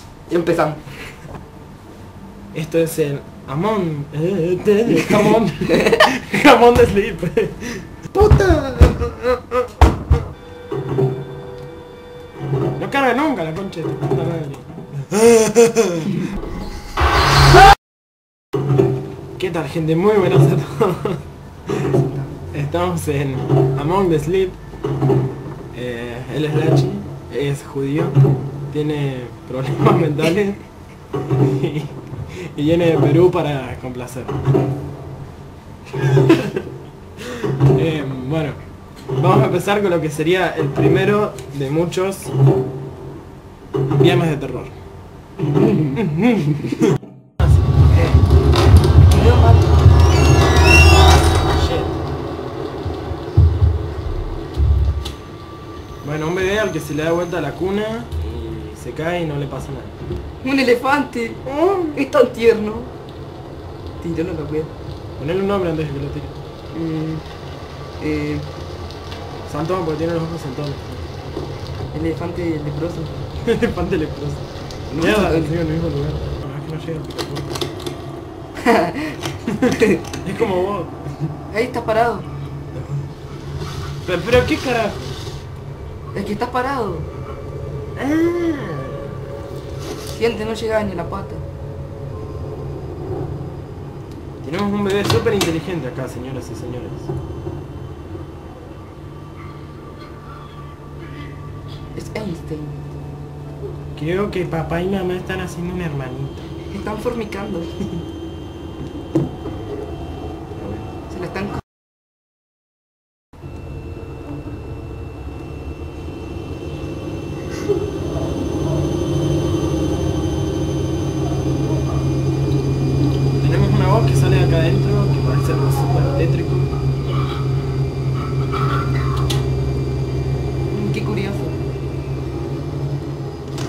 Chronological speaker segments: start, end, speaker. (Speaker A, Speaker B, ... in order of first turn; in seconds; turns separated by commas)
Speaker A: 0.3-1.0, Speaker B: 2.5-9.9, Speaker B: 12.8-16.3, Speaker B: 19.4-21.2, Speaker A: 21.9-22.4, Speaker B: 22.5-24.6, Speaker B: 25.7-28.2, Speaker B: 28.7-30.6, Speaker B: 31.3-34.4, Speaker B: 36.0-36.6, Speaker B: 37.2-38.6, Speaker B: 39.2-42.3, Speaker B: 43.9-44.7, Speaker A: 45.6-46.0, Speaker B: 46.0-48.2, Speaker A: 49.1-49.8, Speaker B: 51.5-52.0, Speaker B: 56.0-60.0, Speaker A: 60.4-61.4, Speaker B: 61.5-62.0, Speaker A: 61.9-62.9, Speaker A: 64.0-64.7, Speaker B: 65.2-66.4, Speaker A: 66.7-67.2, Speaker A: 68.0-68.5, Speaker B: 69.5-71.0, Speaker A: 71.9-73.1, Speaker B: 73.4-77.6, Speaker A: 74.9-75.5, Speaker A: 78.6-80.1, Speaker B: 79.5-80.9, Speaker A: 81.5-82.3, Speaker B: 82.7-83.1, Speaker B: 84.0-85.2, Speaker A: 86.1-87.1, Speaker B: 88.0-89.2, Speaker A: 90.1-91.5, Speaker B: 94.4-97.1, Speaker A: 101.9-102.8, Speaker B: 104.0-106.5, Speaker A: 106.7-107.7, Speaker B: 110.6-110.9, Speaker A: 111.1-111.6, Speaker B: 123.4-126.7, Speaker A: 130.7-131.6